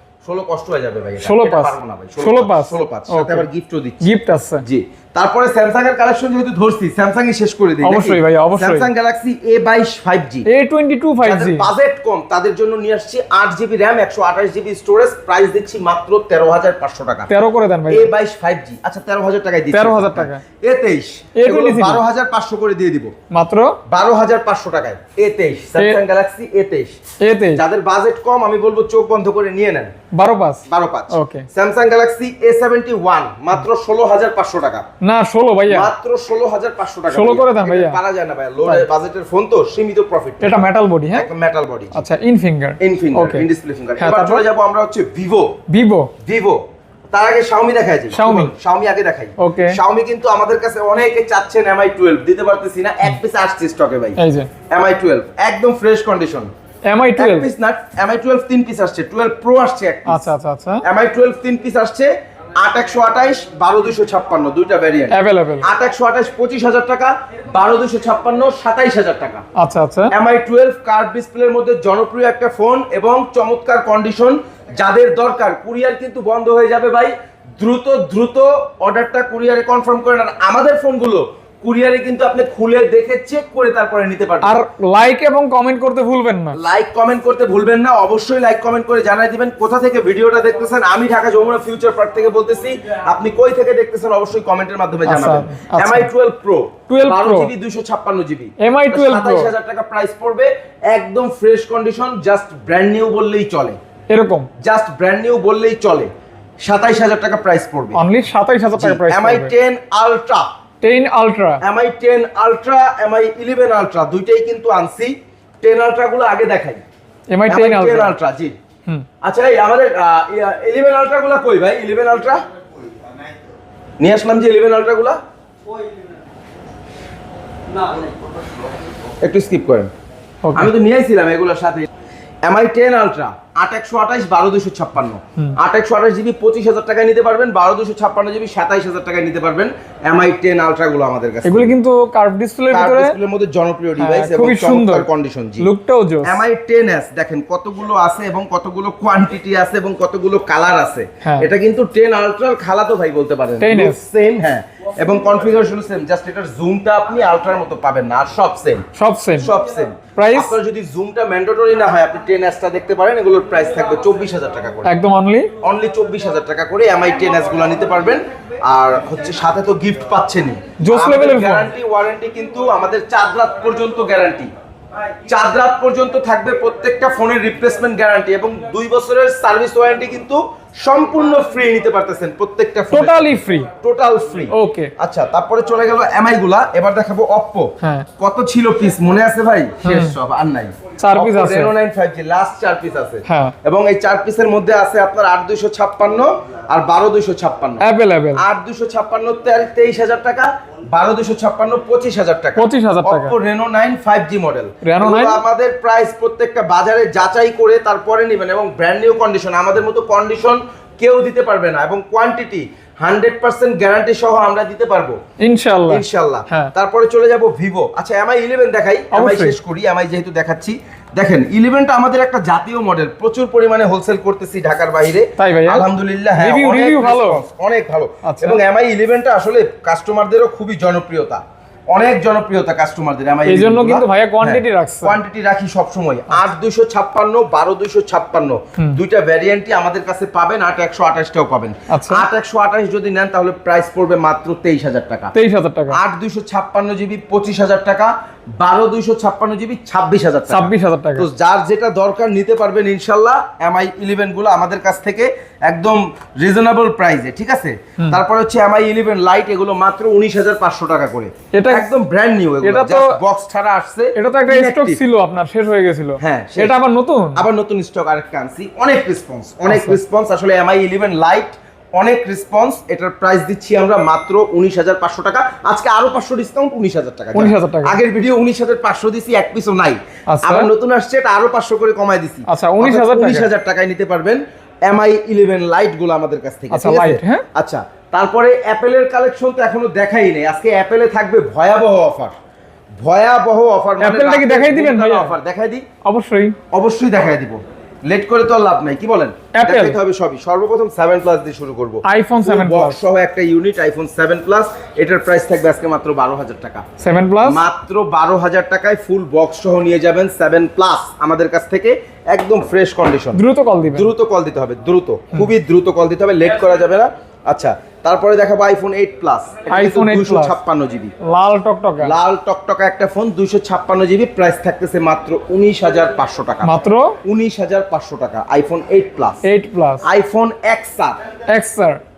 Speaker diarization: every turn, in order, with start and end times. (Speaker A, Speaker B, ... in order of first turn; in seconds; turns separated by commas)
Speaker A: 0.2-4.1, Speaker B: 1.2-3.5, Speaker B: 4.0-4.6, Speaker A: 4.6-10.5, Speaker B: 7.8-8.9, Speaker B: 10.5-11.7, Speaker A: 11.2-17.3, Speaker B: 17.3-18.1, Speaker A: 17.9-23.1, Speaker B: 19.7-20.4, Speaker B: 21.4-22.0, Speaker B: 23.3-23.8, Speaker A: 23.9-27.0, Speaker B: 27.2-27.6, Speaker A: 27.5-29.9, Speaker B: 30.1-31.5, Speaker A: 30.7-34.9, Speaker B: 35.0-35.9, Speaker A: 35.7-42.0, Speaker B: 37.1-38.0, Speaker B: 40.4-41.3, Speaker B: 41.9-44.4, Speaker A: 42.8-45.6, Speaker B: 45.7-46.1, Speaker A: 46.2-54.2, Speaker B: 48.1-48.5, Speaker B: 49.4-49.8, Speaker B: 54.2-54.5, Speaker A: 54.7-56.5, Speaker B: 56.9-57.5, Speaker A: 57.1-60.2, Speaker B: 60.1-60.8, Speaker A: 60.8-69.4, Speaker B: 65.1-65.7, Speaker B: 69.5-70.1, Speaker A: 70.1-84.6, Speaker B: 84.4-86.6, Speaker A: 86.5-103.8, Speaker B: 95.0-96.1, Speaker B: 96.9-97.5, Speaker B: 98.6-99.5, Speaker B: 104.1-104.5, Speaker A: 104.6-106.1, Speaker A: 106.6-108.0, Speaker B: 107.9-109.5, Speaker A: 108.7-110.5, Speaker B: 110.8-111.6, Speaker A: 111.6-116.8, Speaker B: 117.3-118.2, Speaker A: 117.5-118.5, Speaker A: 119.2-122.4, Speaker A: 124.0-125.2, Speaker A: 129.2-129.9, Speaker B: 130.4-130.7, Speaker A: 130.5-131.9, Speaker A: 132.4-141.7, Speaker B: 141.4-143.2, Speaker A: 142.7-145.7, Speaker B: 144.0-145.1, Speaker B: 145.6-146.4, Speaker A: 146.2-164.9, Speaker B: 151.2-151.5, Speaker B: 153.6-154.0, Speaker B: 158.9-159.5, Speaker B: 160.2-160.6, Speaker B: 164.8-165.5, Speaker A: 165.6-174.5, Speaker B: 170.8-171.7, Speaker A: 175.3-215.2, Speaker B: 182.9-183.7, Speaker B: 184.5-184.9, Speaker B: 187.8-188.1, Speaker B: 189.8-190.2, Speaker B: 191.0-191.7, Speaker B: 193.3-193.6, Speaker B: 197.8-198.4, Speaker B: 202.6-203.3, Speaker B: 204.8-205.4, Speaker B: 215.4-216.7, Speaker A: 215.9-245.3, Speaker B: 219.1-219.6, Speaker B: 225.4-225.8, Speaker B: 226.4-227.4, Speaker B: 228.2-228.6, Speaker B: 233.4-235.2, Speaker B: 241.9-242.2, Speaker B: 245.3-246.0, Speaker A: 245.9-265.0, Speaker B: 250.5-251.3, Speaker B: 261.5-261.9, Speaker B: 262.6-263.2, Speaker B: 264.1-267.4, Speaker A: 266.2-266.8, Speaker A: 267.3-292.3, Speaker B: 269.7-270.0, Speaker B: 277.3-278.0, Speaker B: 280.3-280.7, Speaker B: 282.5-283.5, Speaker B: 286.7-287.4, Speaker A: 293.0-295.8, Speaker B: 294.0-295.3, Speaker B: 296.0-296.6, Speaker A: 296.7-306.8, Speaker B: 299.5-300.0, Speaker B: 302.0-303.0, Speaker B: 307.0-307.6, Speaker A: 307.4-321.1, Speaker B: 313.3-314.1, Speaker B: 319.7-320.6, Speaker B: 321.2-322.1, Speaker A: 322.0-329.4, Speaker B: 326.6-327.2, Speaker B: 329.4-330.0, Speaker A: 330.0-331.2, Speaker B: 331.5-332.0